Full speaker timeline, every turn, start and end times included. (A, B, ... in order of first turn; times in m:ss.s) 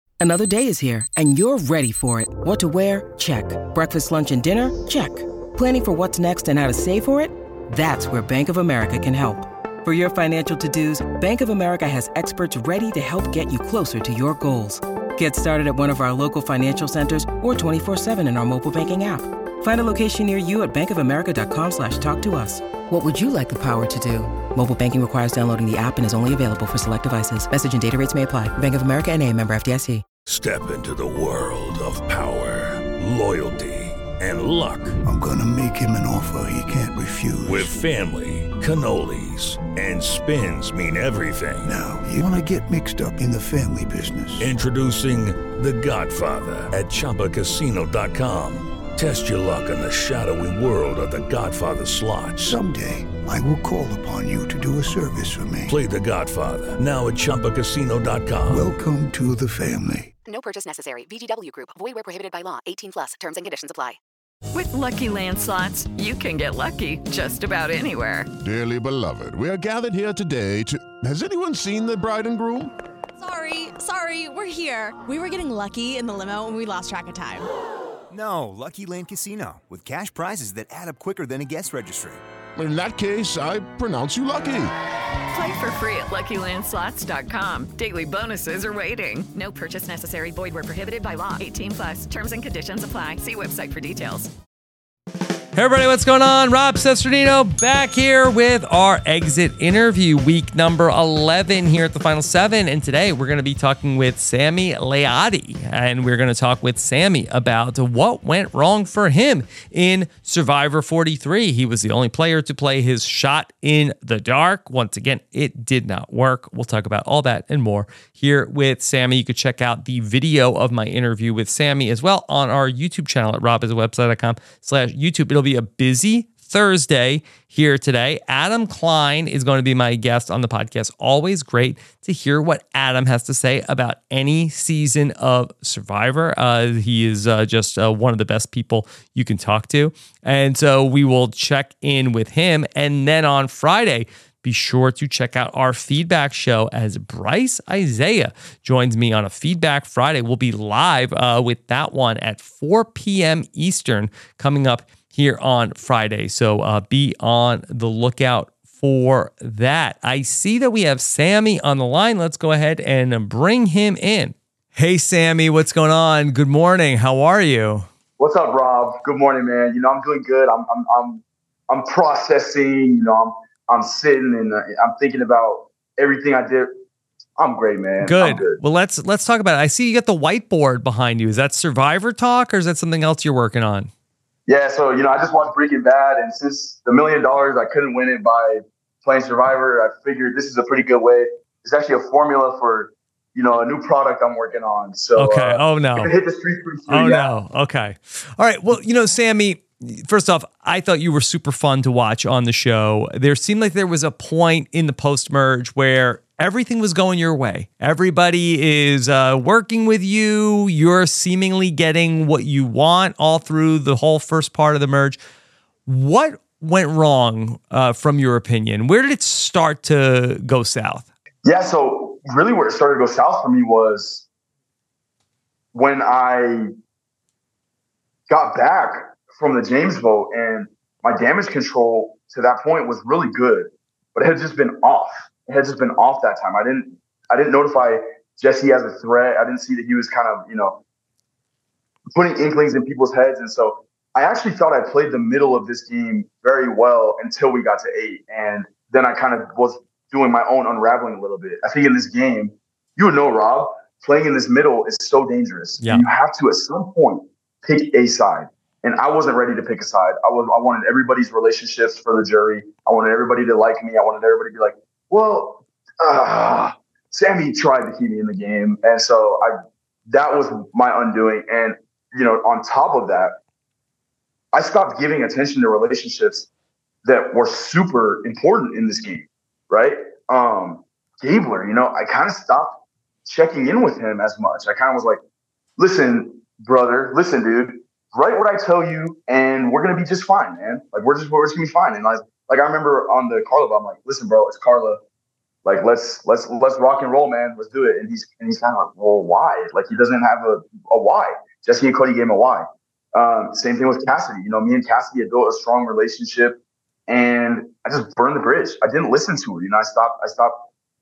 0:00.2-0:30.0 A
0:30.3-0:35.0 B
0:35.0-0:37.7 C
0:37.4-0:41.7 B
0:41.6-0:44.5 C
0:44.4-0:52.4 B
0:52.4-0:55.7 C
0:55.7-0:58.6 B
0:58.5-1:00.1 C
1:00.2-1:04.0 D
1:04.5-1:08.3 E
1:08.4-1:12.7 F
1:13.2-1:17.5 G
1:18.1-1:22.2 H
1:22.6-1:24.7 F
1:25.3-1:34.3 E
1:35.5-2:47.9 I
2:48.2-2:56.7 J
2:57.4-2:58.6 J
2:58.0-3:03.9 I
3:04.5-3:17.3 J
3:15.2-3:16.1 I
3:16.9-3:35.2 I
3:35.8-3:41.0 I
3:41.4-3:44.2 J
3:45.7-3:46.7 J
3:48.3-4:00.8 J
4:02.1-4:29.5 J
4:30.1-4:33.3 J
4:34.5-4:36.5 J
4:37.0-4:45.2 J
4:45.8-4:55.0 J
4:55.6-5:10.6 J